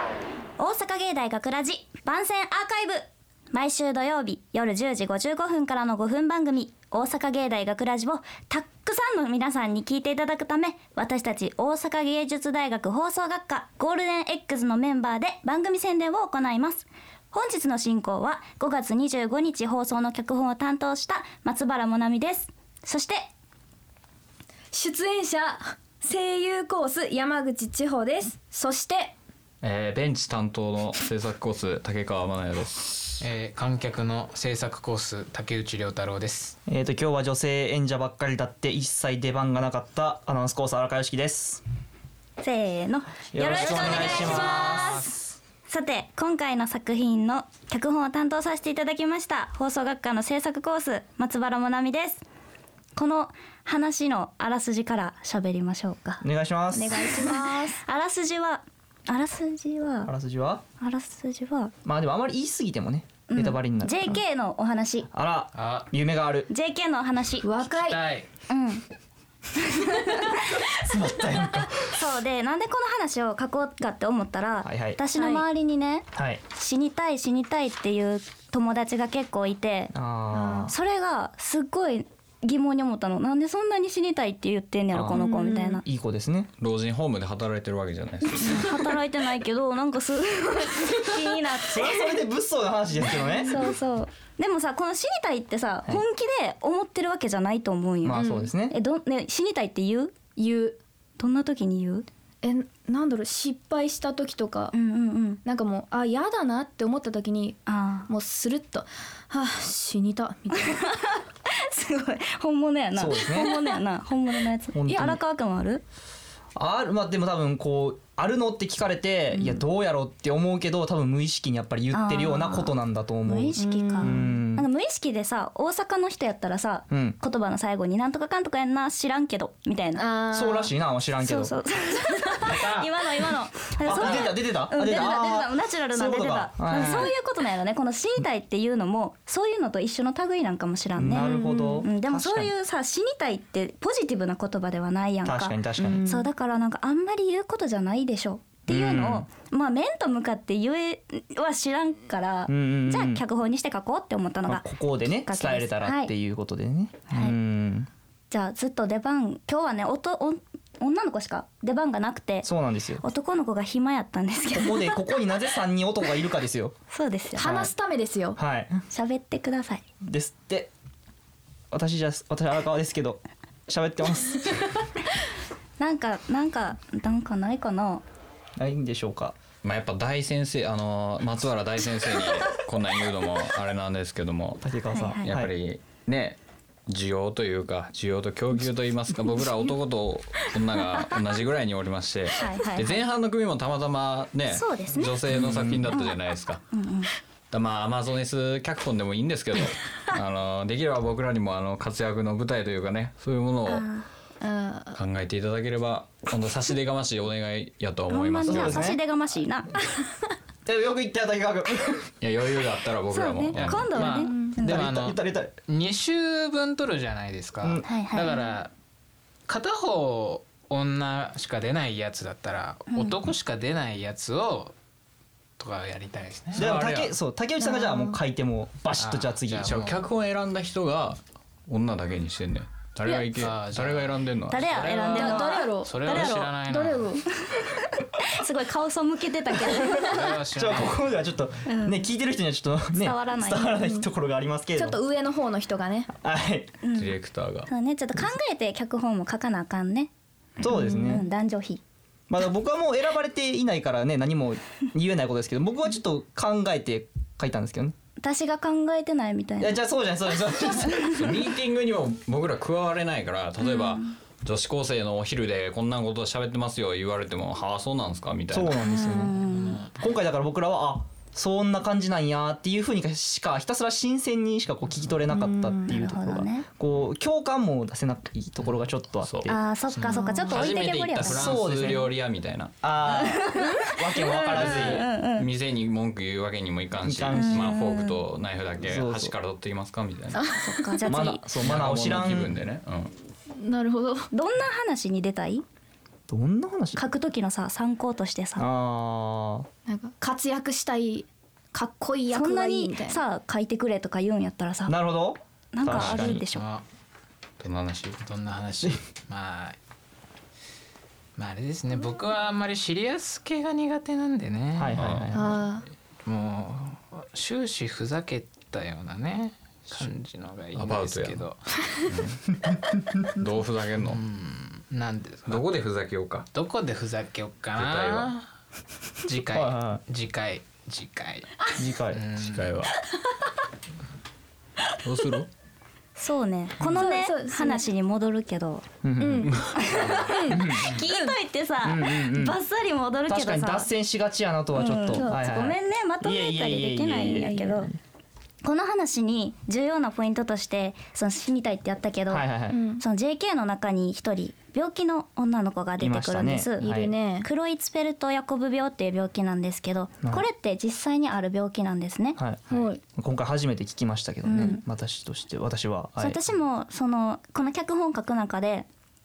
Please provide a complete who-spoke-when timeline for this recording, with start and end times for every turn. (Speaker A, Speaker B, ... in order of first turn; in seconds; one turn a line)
Speaker A: 0.6-23.2
Speaker B: 24.7-29.1
Speaker C: 29.6-33.2
Speaker D: 33.2-36.5
Speaker E: 36.7-41.6
Speaker A: 42.4-52.2
Speaker E: 43.3-45.1
Speaker D: 43.5-45.2
Speaker A: 53.0-56.2
Speaker E: 56.2-57.0
Speaker B: 56.7-57.8
Speaker A: 57.3-60.1
Speaker E: 60.1-60.6
Speaker A: 60.8-61.7
Speaker E: 61.9-64.2
Speaker A: 63.3-65.1
Speaker E: 65.1-66.5
Speaker D: 65.5-65.9
Speaker A: 66.5-67.5
Speaker B: 67.4-68.0
Speaker D: 67.8-68.3
Speaker A: 68.5-68.8
Speaker A: 69.6-70.7
Speaker E: 70.7-71.9
Speaker A: 71.8-79.9
Speaker E: 74.7-75.0
Speaker B: 75.2-75.5
Speaker E: 76.1-76.4
Speaker E: 79.9-80.7
Speaker B: 80.3-80.7
Speaker A: 80.7-85.8
Speaker E: 84.9-86.5
Speaker B: 85.2-85.8
Speaker C: 86.6-88.7
Speaker A: 88.4-92.2
Speaker E: 91.7-93.6
Speaker A: 93.4-100.2
Speaker E: 98.0-98.8
Speaker B: 98.1-98.5
Speaker B: 100.4-100.8
Speaker A: 101.2-102.1
Speaker B: 102.4-104.7
Speaker A: 104.7-105.4
Speaker B: 105.5-110.8
Speaker A: 107.7-108.1
Speaker A: 110.5-115.8
Speaker E: 112.9-113.6
Speaker E: 114.7-115.2
Speaker E: 116.6-124.7
Speaker A: 121.9-130.1
Speaker B: 123.6-124.2
Speaker E: 126.9-127.2
Speaker B: 130.0-130.7
Speaker E: 130.3-131.6
Speaker A: 131.2-156.1
Speaker E: 133.8-137.1
Speaker E: 141.0-142.5
Speaker B: 141.1-141.8
Speaker E: 145.2-146.0
Speaker B: 145.8-146.3
Speaker E: 148.7-149.3
Speaker E: 152.5-153.2
Speaker E: 154.5-157.9
Speaker A: 157.1-157.3
Speaker A: 158.3-165.0
Speaker E: 162.4-163.0
Speaker E: 164.5-166.7
Speaker A: 166.9-167.6
Speaker B: 167.4-168.4
Speaker E: 168.3-168.8
Speaker A: 168.9-169.8
Speaker E: 170.0-170.7
Speaker E: 171.7-174.7
Speaker A: 175.8-178.0
Speaker E: 178.6-179.3
Speaker C: 179.6-184.6
Speaker E: 184.6-185.5
Speaker A: 184.9-185.3
Speaker C: 185.2-196.6
Speaker A: 192.4-193.0
Speaker A: 194.5-195.2
Speaker E: 195.5-195.9
Speaker A: 195.9-196.2
Speaker A: 196.7-197.1
Speaker C: 197.5-203.9
Speaker A: 203.7-204.1
Speaker B: 204.4-205.0
Speaker C: 205.0-208.9
Speaker A: 208.1-209.8
Speaker E: 208.5-209.0
Speaker E: 210.7-212.1
Speaker C: 212.2-214.1
Speaker A: 213.1-214.8
Speaker D: 213.7-218.7
Speaker B: 214.1-214.4
Speaker E: 214.6-215.5
Speaker A: 217.8-218.4
Speaker D: 219.5-224.8
Speaker A: 222.9-223.2
Speaker D: 225.6-226.7
Speaker C: 226.6-227.1
Speaker E: 226.6-229.9
Speaker B: 227.6-228.1
Speaker D: 229.0-230.0
Speaker C: 229.7-234.8
Speaker D: 233.4-237.2
Speaker A: 234.5-236.6
Speaker B: 235.0-237.3
Speaker A: 237.4-240.2
Speaker D: 240.0-241.1
Speaker E: 240.5-245.0
Speaker A: 241.7-242.0
Speaker A: 243.0-243.8
Speaker B: 243.8-244.1
Speaker B: 244.8-246.1
Speaker E: 246.1-246.8
Speaker A: 246.8-247.1
Speaker C: 246.9-247.7
Speaker A: 247.7-250.1
Speaker E: 250.6-251.3
Speaker A: 250.9-251.8
Speaker E: 252.3-257.9
Speaker A: 258.2-259.8
Speaker E: 259.6-261.2
Speaker A: 260.7-261.0
Speaker C: 261.0-268.8
Speaker A: 263.6-264.1
Speaker E: 268.5-269.4
Speaker B: 268.8-269.2
Speaker A: 269.0-269.8
Speaker D: 269.4-269.9
Speaker E: 269.9-279.6
Speaker B: 275.3-275.9
Speaker A: 275.9-276.7
Speaker C: 279.2-279.5
Speaker A: 279.5-281.5
Speaker D: 279.9-280.4
Speaker B: 280.0-280.5
Speaker C: 280.5-282.7
Speaker E: 281.2-282.1
Speaker E: 282.8-285.1
Speaker A: 283.2-285.5
Speaker C: 284.5-290.4
Speaker E: 287.0-287.7
Speaker A: 287.3-288.2
Speaker E: 288.8-289.3
Speaker B: 290.3-291.0
Speaker A: 290.6-291.5
Speaker E: 291.1-292.6
Speaker C: 291.6-293.1
Speaker B: 293.5-294.3
Speaker A: 294.3-295.6
Speaker E: 296.3-297.0
Speaker A: 297.0-298.7
Speaker E: 298.6-299.7
Speaker B: 299.9-303.2
Speaker A: 302.3-305.0
Speaker E: 304.9-306.4
Speaker A: 305.7-306.7
Speaker D: 305.9-306.9
Speaker D: 307.6-309.8
Speaker D: 311.4-315.4
Speaker E: 314.8-315.6
Speaker C: 315.0-315.4
Speaker B: 315.3-315.9
Speaker D: 316.2-322.0
Speaker C: 320.7-321.4
Speaker C: 322.1-322.6
Speaker C: 323.4-324.2
Speaker D: 324.1-325.6
Speaker C: 325.5-326.5
Speaker D: 326.5-328.5
Speaker C: 327.8-328.3
Speaker D: 329.2-332.8
Speaker E: 329.5-330.0
Speaker E: 331.8-332.2
Speaker C: 332.4-332.9
Speaker C: 335.0-335.5
Speaker A: 336.2-338.9
Speaker B: 336.8-337.9
Speaker E: 339.0-339.5
Speaker B: 339.2-341.4
Speaker A: 339.7-343.9
Speaker E: 340.5-341.0
Speaker E: 341.8-342.6
Speaker E: 343.3-348.0
Speaker A: 344.8-347.9
Speaker A: 348.6-356.9
Speaker E: 352.3-352.8
Speaker B: 352.7-353.0
Speaker E: 356.0-357.1
Speaker B: 356.8-357.5
Speaker A: 357.4-362.4
Speaker E: 362.4-366.4
Speaker B: 362.7-363.0
Speaker A: 364.5-364.8
Speaker A: 366.2-368.9